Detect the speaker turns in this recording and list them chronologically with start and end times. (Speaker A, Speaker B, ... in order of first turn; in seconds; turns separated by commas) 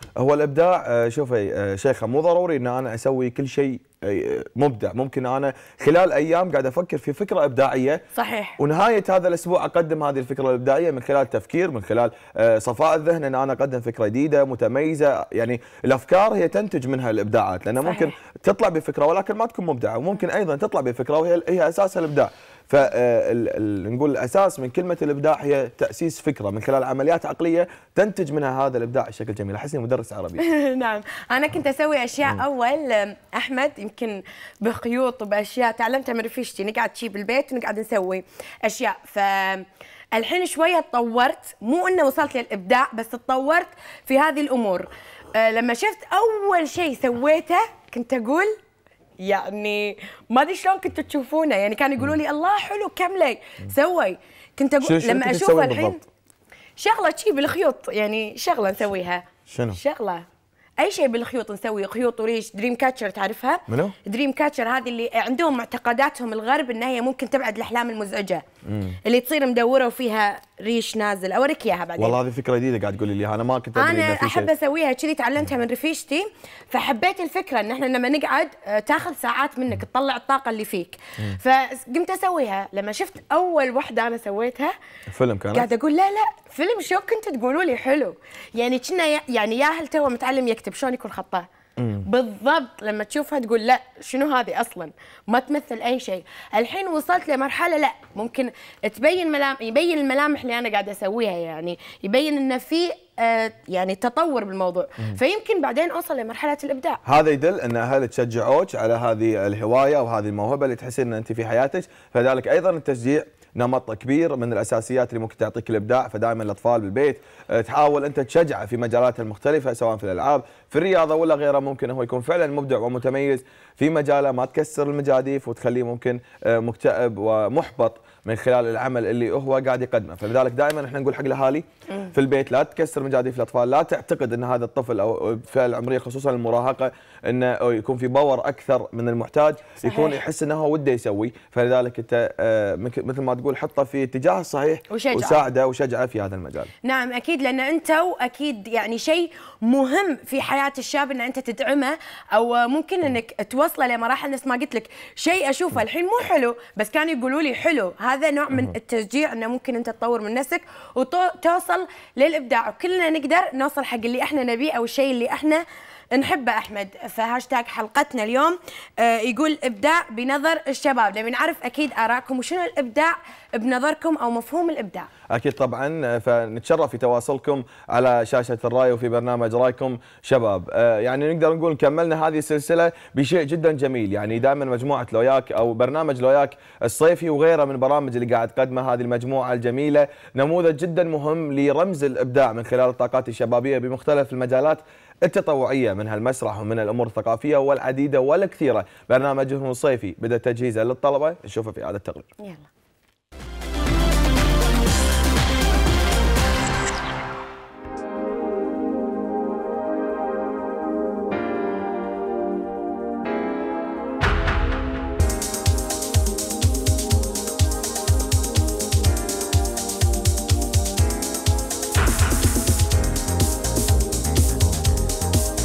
Speaker A: 0.2-8.0, Speaker B: 8.1-8.6, Speaker A: 8.6-30.4, Speaker B: 17.8-18.1, Speaker B: 30.4-48.5, Speaker B: 49.2-56.0, Speaker A: 54.8-56.0, Speaker B: 56.8-60.2, Speaker A: 59.5-59.8, Speaker B: 60.8-68.4, Speaker A: 63.7-64.0, Speaker A: 68.7-69.0, Speaker B: 69.0-72.2, Speaker A: 72.0-74.5, Speaker B: 73.8-84.7, Speaker A: 85.1-85.7, Speaker B: 85.5-91.5, Speaker A: 91.8-92.0, Speaker B: 92.0-107.0, Speaker A: 107.0-146.7, Speaker B: 139.8-140.2, Speaker B: 144.9-145.4, Speaker B: 146.8-165.6, Speaker B: 166.1-175.1, Speaker A: 175.3-202.3, Speaker B: 202.4-202.7